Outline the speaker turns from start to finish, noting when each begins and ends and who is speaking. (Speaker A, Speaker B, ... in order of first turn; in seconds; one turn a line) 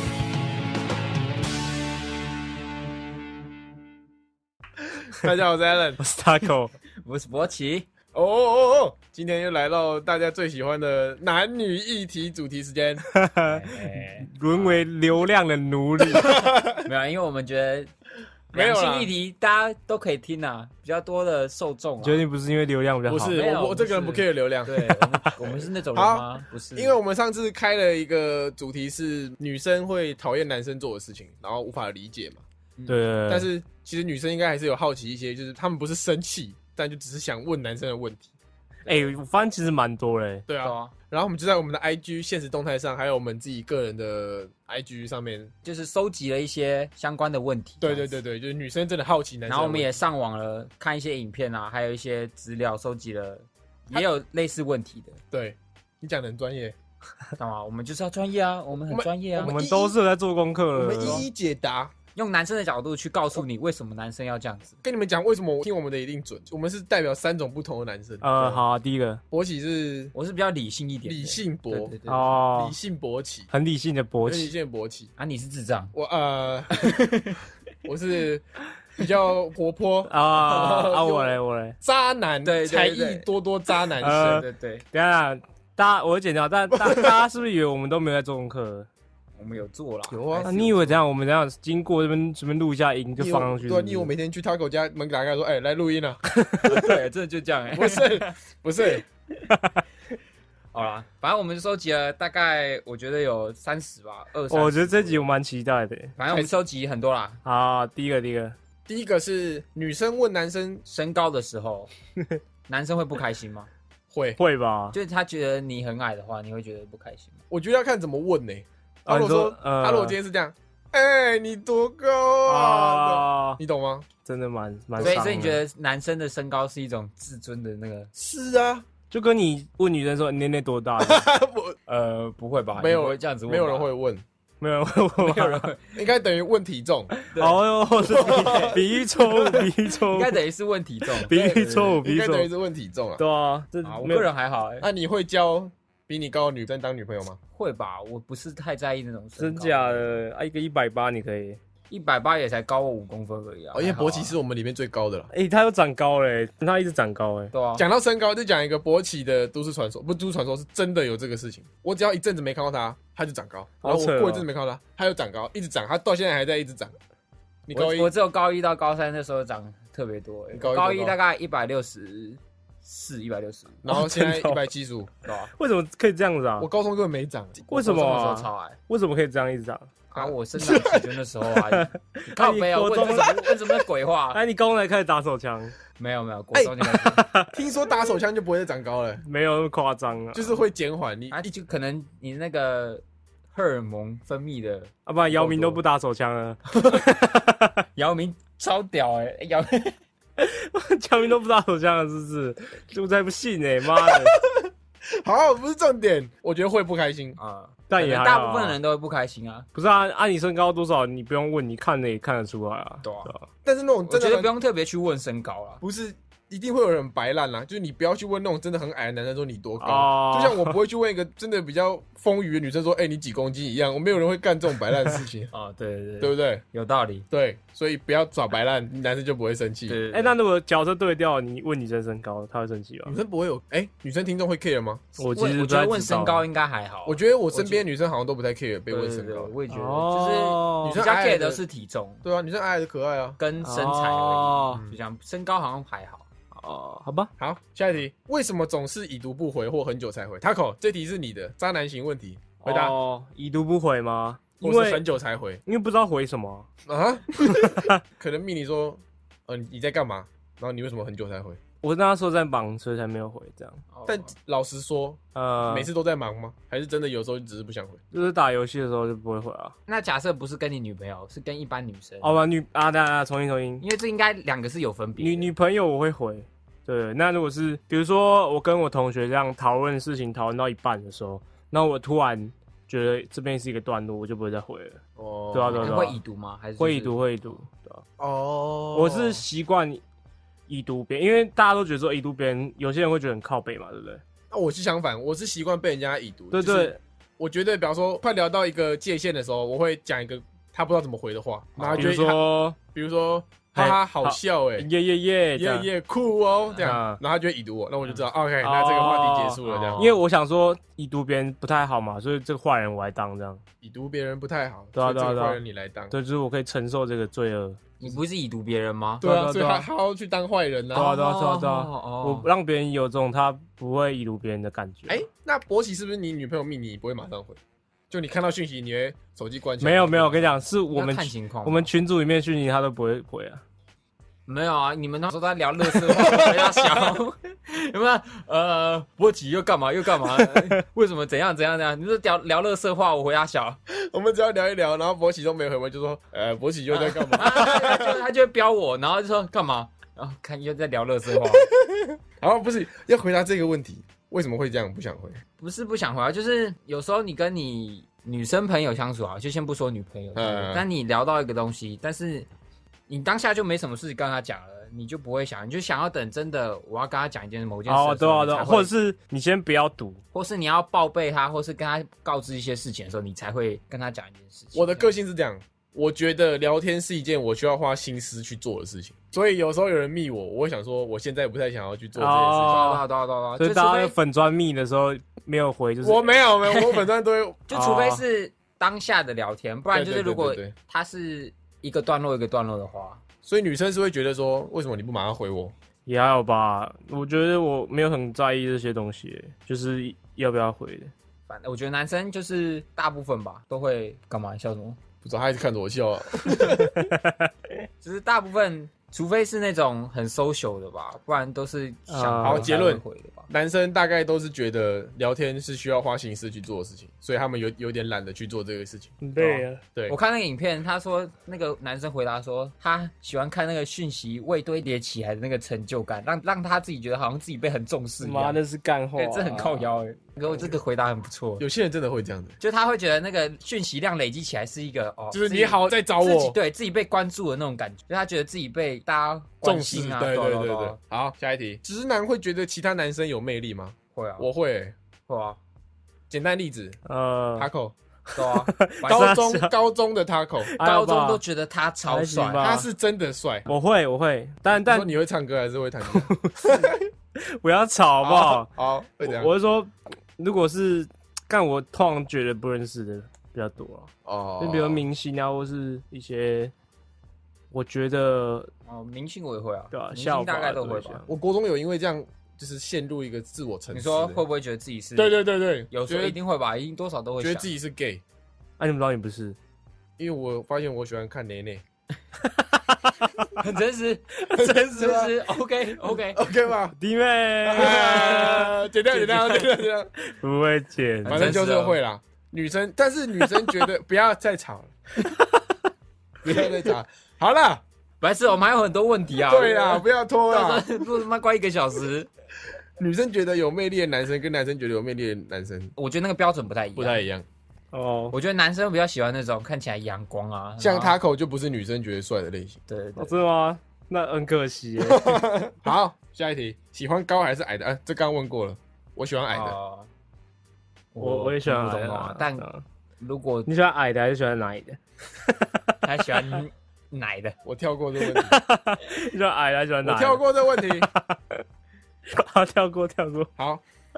Speaker A: 4.9-6.0
Speaker B: 6.0-6.7
Speaker C: 7.0-7.9
Speaker A: 8.1-13.0
Speaker B: 13.1-16.5
Speaker C: 13.4-14.9
Speaker A: 16.0-16.8
Speaker C: 16.8-17.9
Speaker C: 18.5-22.2
Speaker A: 18.5-19.1
Speaker B: 22.0-23.4
Speaker A: 23.1-32.4
Speaker C: 23.3-27.0
Speaker B: 32.9-33.5
Speaker A: 33.3-38.3
Speaker B: 38.9-40.5
Speaker A: 40.5-45.5
Speaker C: 40.6-40.9
Speaker C: 45.6-48.1
Speaker A: 47.8-49.9
Speaker C: 49.5-55.2
Speaker A: 55.3-56.8
Speaker C: 57.4-59.5
Speaker A: 58.9-60.0
Speaker B: 59.4-61.2
Speaker A: 60.7-61.9
Speaker C: 62.1-64.8
Speaker A: 64.8-68.6
Speaker B: 68.2-69.2
Speaker A: 69.3-70.1
Speaker C: 70.1-72.5
Speaker A: 71.0-72.0
Speaker B: 72.0-72.8
Speaker A: 72.5-73.5
Speaker B: 73.5-74.5
Speaker A: 74.2-75.1
Speaker C: 75.2-75.9
Speaker A: 75.9-77.0
Speaker C: 76.7-77.4
Speaker A: 77.8-78.4
Speaker A: 78.9-84.4
Speaker B: 80.1-81.8
Speaker C: 82.4-83.3
Speaker B: 84.0-88.9
Speaker C: 84.0-84.8
Speaker A: 86.8-87.2
Speaker C: 89.4-90.5
Speaker A: 90.1-91.0
Speaker B: 90.4-94.1
Speaker A: 93.2-96.2
Speaker B: 96.4-96.8
Speaker C: 96.6-98.4
Speaker A: 97.7-99.0
Speaker C: 100.7-105.2
Speaker B: 104.5-106.1
Speaker C: 106.2-107.4
Speaker A: 106.3-106.5
Speaker B: 107.4-108.5
Speaker A: 108.9-110.8
Speaker C: 110.8-111.9
Speaker C: 112.7-113.7
Speaker A: 114.1-114.4
Speaker B: 114.4-115.0
Speaker C: 114.9-117.4
Speaker A: 117.5-124.1
Speaker B: 119.1-120.2
Speaker B: 122.5-123.6
Speaker B: 124.2-125.6
Speaker A: 125.0-125.5
Speaker C: 125.0-128.1
Speaker A: 128.1-128.8
Speaker B: 129.1-131.3
Speaker A: 131.0-131.8
Speaker C: 131.9-133.9
Speaker A: 132.8-134.2
Speaker B: 134.6-135.6
Speaker C: 135.2-136.0
Speaker A: 136.0-137.1
Speaker C: 137.2-138.8
Speaker B: 137.3-140.4
Speaker A: 138.0-139.7
Speaker C: 140.1-141.3
Speaker B: 141.2-142.5
Speaker A: 141.3-143.2
Speaker B: 143.2-144.3
Speaker C: 143.8-144.9
Speaker A: 144.8-147.4
Speaker C: 147.5-150.2
Speaker B: 149.4-151.6
Speaker C: 151.9-154.3
Speaker A: 153.7-155.3
Speaker B: 155.3-157.5
Speaker C: 157.5-157.8
Speaker A: 157.8-166.9
Speaker B: 163.8-164.4
Speaker A: 167.7-168.1
Speaker C: 167.7-173.8
Speaker A: 170.5-171.2
Speaker A: 173.8-175.1
Speaker B: 173.9-174.7
Speaker C: 175.2-175.5
Speaker B: 175.5-176.7
Speaker A: 176.6-177.7
Speaker C: 177.7-178.8
Speaker B: 177.7-179.9
Speaker C: 180.1-184.4
Speaker A: 180.1-181.0
Speaker B: 181.7-183.8
Speaker A: 182.9-183.3
Speaker B: 184.3-185.7
Speaker C: 186.0-187.2
Speaker A: 186.5-186.8
Speaker B: 186.9-187.6
Speaker A: 187.5-189.2
Speaker B: 189.2-190.6
Speaker A: 190.3-191.5
Speaker C: 191.3-195.8
Speaker B: 195.1-197.8
Speaker C: 197.9-200.0
Speaker B: 200.4-204.4
Speaker A: 203.9-207.4
Speaker C: 207.4-209.7
Speaker B: 207.9-208.8
Speaker B: 209.7-213.4
Speaker C: 213.0-213.3
Speaker A: 213.6-214.5
Speaker C: 214.1-215.8
Speaker A: 215.8-225.5
Speaker B: 219.8-220.8
Speaker C: 225.5-227.2
Speaker A: 226.2-226.6
Speaker A: 227.3-230.0
Speaker C: 229.9-230.3
Speaker B: 230.1-233.2
Speaker A: 233.1-235.0
Speaker B: 235.2-236.4
Speaker C: 235.3-237.8
Speaker A: 237.1-239.5
Speaker C: 238.9-242.2
Speaker B: 239.7-241.0
Speaker A: 240.8-241.6
Speaker A: 242.2-243.4
Speaker C: 243.4-246.2
Speaker B: 243.6-244.8
Speaker B: 246.5-247.3
Speaker A: 247.4-252.9
Speaker B: 252.6-255.0
Speaker A: 254.6-255.6
Speaker B: 255.7-256.7
Speaker A: 256.9-261.6
Speaker B: 257.5-258.0
Speaker B: 261.8-263.8
Speaker C: 263.9-264.3
Speaker A: 264.1-268.0
Speaker B: 265.3-265.9
Speaker B: 268.1-269.7
Speaker C: 269.9-272.4
Speaker B: 272.2-273.8
Speaker C: 273.8-275.5
Speaker B: 275.2-285.0
Speaker A: 285.2-286.1
Speaker B: 285.5-286.2
Speaker C: 285.7-287.6
Speaker B: 286.8-288.0
Speaker A: 288.2-289.4
Speaker B: 288.9-290.0
Speaker B: 290.7-294.2
Speaker A: 294.5-304.9
Speaker B: 296.5-297.0
Speaker C: 301.8-302.1
Speaker B: 301.9-302.8
Speaker B: 303.8-305.9
Speaker A: 305.5-310.1
Speaker B: 306.8-307.2
Speaker B: 308.6-313.6
Speaker C: 309.6-310.2
Speaker A: 313.8-316.1
Speaker B: 314.9-315.6
Speaker B: 316.1-317.8
Speaker C: 318.0-319.2
Speaker B: 319.2-319.9
Speaker A: 319.2-321.1
Speaker C: 320.9-322.5
Speaker B: 320.9-325.2
Speaker A: 325.1-327.6
Speaker A: 328.1-330.6
Speaker B: 329.8-333.6
Speaker C: 330.9-331.9
Speaker C: 334.5-343.8
Speaker A: 335.9-337.1
Speaker B: 340.4-340.7
Speaker A: 343.9-348.2
Speaker C: 346.9-351.7
Speaker A: 351.5-355.4
Speaker C: 355.6-362.5
Speaker A: 360.3-360.9
Speaker C: 363.1-368.9
Speaker B: 367.9-370.2
Speaker C: 370.3-375.1
Speaker A: 374.7-383.0
Speaker B: 382.2-383.0
Speaker C: 382.6-384.1
Speaker B: 383.6-386.4
Speaker A: 386.0-387.7
Speaker C: 386.6-387.0
Speaker C: 387.7-393.2
Speaker B: 387.7-388.2
Speaker A: 389.9-390.7
Speaker A: 393.4-395.7
Speaker B: 396.1-401.1
Speaker C: 401.5-405.0
Speaker A: 405.2-407.1
Speaker B: 406.9-407.5
Speaker C: 408.0-413.5
Speaker B: 412.1-412.7
Speaker A: 412.4-419.2
Speaker B: 419.2-419.8
Speaker C: 419.4-428.6
Speaker B: 428.2-429.9
Speaker C: 429.1-431.6
Speaker A: 431.6-432.6
Speaker C: 432.6-441.0
Speaker A: 435.3-436.6
Speaker A: 439.6-444.9
Speaker C: 444.1-444.5
Speaker C: 445.3-445.6
Speaker A: 446.3-447.0
Speaker B: 447.1-447.7
Speaker A: 447.6-447.9
Speaker C: 448.3-449.4
Speaker B: 448.4-449.7
Speaker A: 449.0-450.7
Speaker B: 450.7-451.4
Speaker C: 450.8-452.8
Speaker B: 452.1-452.9
Speaker A: 452.6-453.7
Speaker B: 453.7-455.1
Speaker A: 454.7-457.0
Speaker B: 456.1-456.6
Speaker B: 457.4-458.7
Speaker A: 458.2-459.5
Speaker B: 459.2-466.7
Speaker A: 464.2-465.0
Speaker B: 467.7-468.7
Speaker C: 468.9-471.2
Speaker B: 469.9-471.3
Speaker A: 471.3-474.4
Speaker C: 473.9-477.7
Speaker A: 475.1-476.4
Speaker A: 477.4-478.2
Speaker B: 478.8-479.6
Speaker A: 480.2-481.8
Speaker C: 483.5-486.4
Speaker A: 484.6-485.4
Speaker A: 486.3-487.0
Speaker B: 487.0-488.8
Speaker A: 487.6-490.1
Speaker C: 489.1-489.6
Speaker B: 490.2-491.6
Speaker C: 491.2-492.0
Speaker A: 491.2-494.9
Speaker A: 496.4-497.8
Speaker C: 498.2-502.3
Speaker A: 499.5-500.9
Speaker A: 503.0-505.9
Speaker C: 505.9-507.2
Speaker A: 506.9-507.4
Speaker B: 507.9-508.3
Speaker C: 508.3-511.1
Speaker A: 510.8-512.8
Speaker C: 512.9-513.4
Speaker B: 513.2-515.4
Speaker A: 515.0-519.8
Speaker C: 519.5-520.1
Speaker C: 521.1-522.7
Speaker B: 521.2-522.8
Speaker C: 523.2-523.7
Speaker B: 523.6-525.9
Speaker C: 526.0-527.6
Speaker A: 527.6-528.6
Speaker B: 528.2-531.6
Speaker A: 530.0-531.1
Speaker B: 532.3-533.5
Speaker A: 533.6-533.8